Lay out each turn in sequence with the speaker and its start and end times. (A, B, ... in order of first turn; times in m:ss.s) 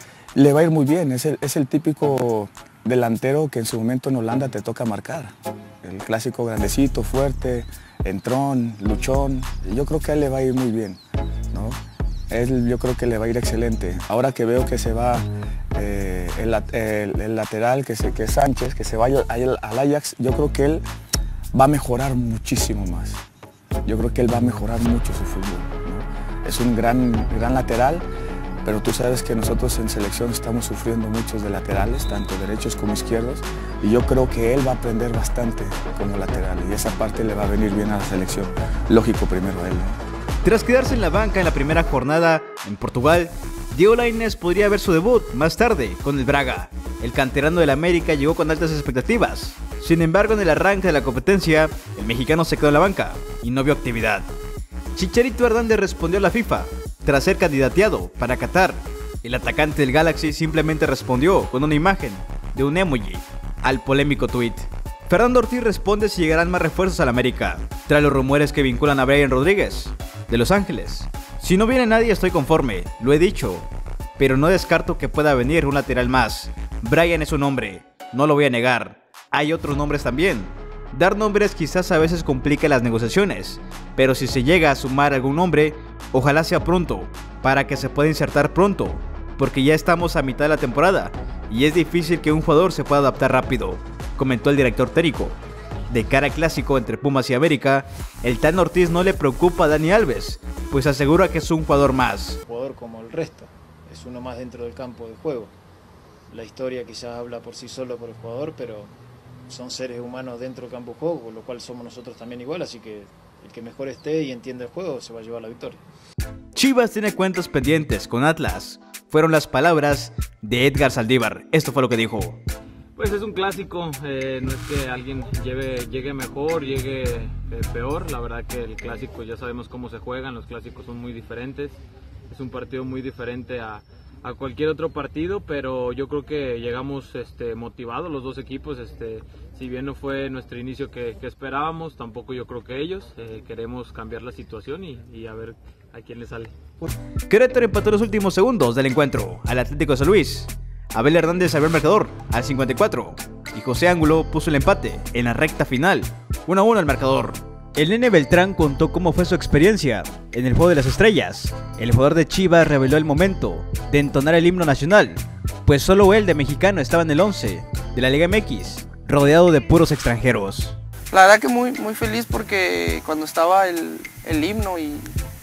0:00.4-0:11.0 A
0:11.5-0:20.8 A
0:21.5-0:23.2 A
0:23.8-0:28.1 A
0:28.6-0:40.0 A
0:40.4-0:54.3 B
0:55.0-1:35.4 B
1:35.9-1:42.4 B
1:42.5-1:45.5 C
1:46.3-1:48.9 C
1:49.5-1:55.8 C
1:56.6-2:02.4 B
2:03.0-2:26.5 D
2:27.3-2:50.8 B
2:51.1-2:55.1 E